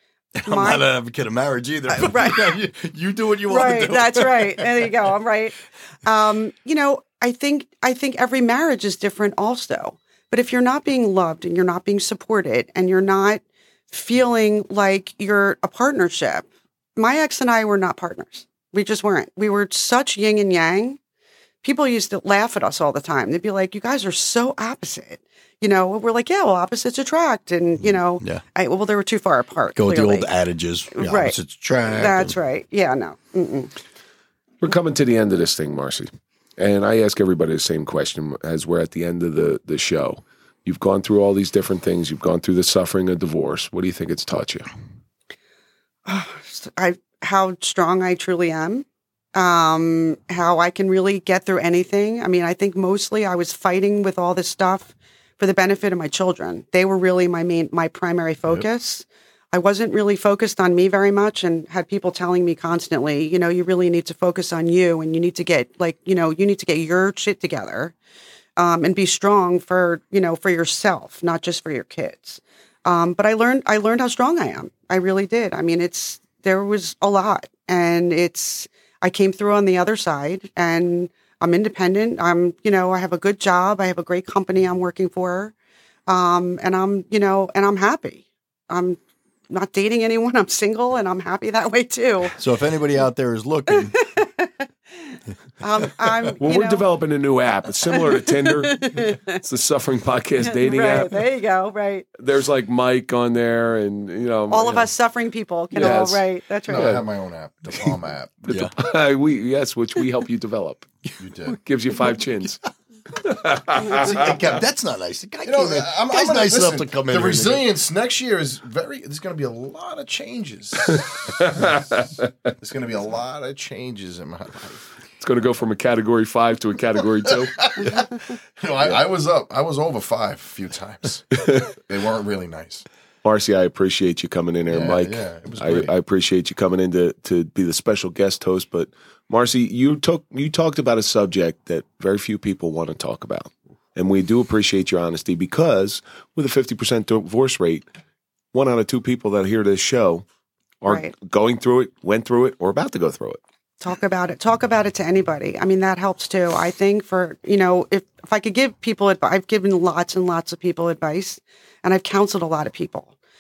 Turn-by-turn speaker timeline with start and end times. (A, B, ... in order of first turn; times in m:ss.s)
0:00.4-0:04.9 A
0:00.4-0:00.8 B
0:01.9-0:02.6 B
0:03.5-0:21.0 B
0:21.6-0:30.3 B
0:29.8-0:32.4 A
0:31.0-0:31.4 B
0:31.9-0:33.7 B
0:34.6-0:44.7 C
0:46.1-1:07.9 B
1:08.6-1:25.5 B
1:26.1-1:29.0 B
1:29.5-1:32.4 B
1:32.4-1:34.0 A
1:33.7-1:36.9 B
1:36.4-1:41.2 C
1:37.9-1:39.4 B
1:40.4-1:42.1 B
1:42.2-1:44.9 C
1:44.5-1:47.0 B
1:45.8-1:47.0 C
1:46.7-1:48.7 D
1:48.5-1:48.7 A
1:48.5-1:50.9 C
1:51.2-1:51.6 D
1:51.5-1:54.6 C
1:53.8-1:57.7 A
1:55.4-2:04.8 D
2:00.9-2:02.1 C
2:05.2-2:07.5 C
2:07.4-2:12.8 D
2:11.4-2:11.7 C
2:13.2-2:27.9 C
2:14.7-2:15.9 D
2:28.5-2:30.2 C
2:30.8-2:33.4 C
2:33.8-2:43.1 B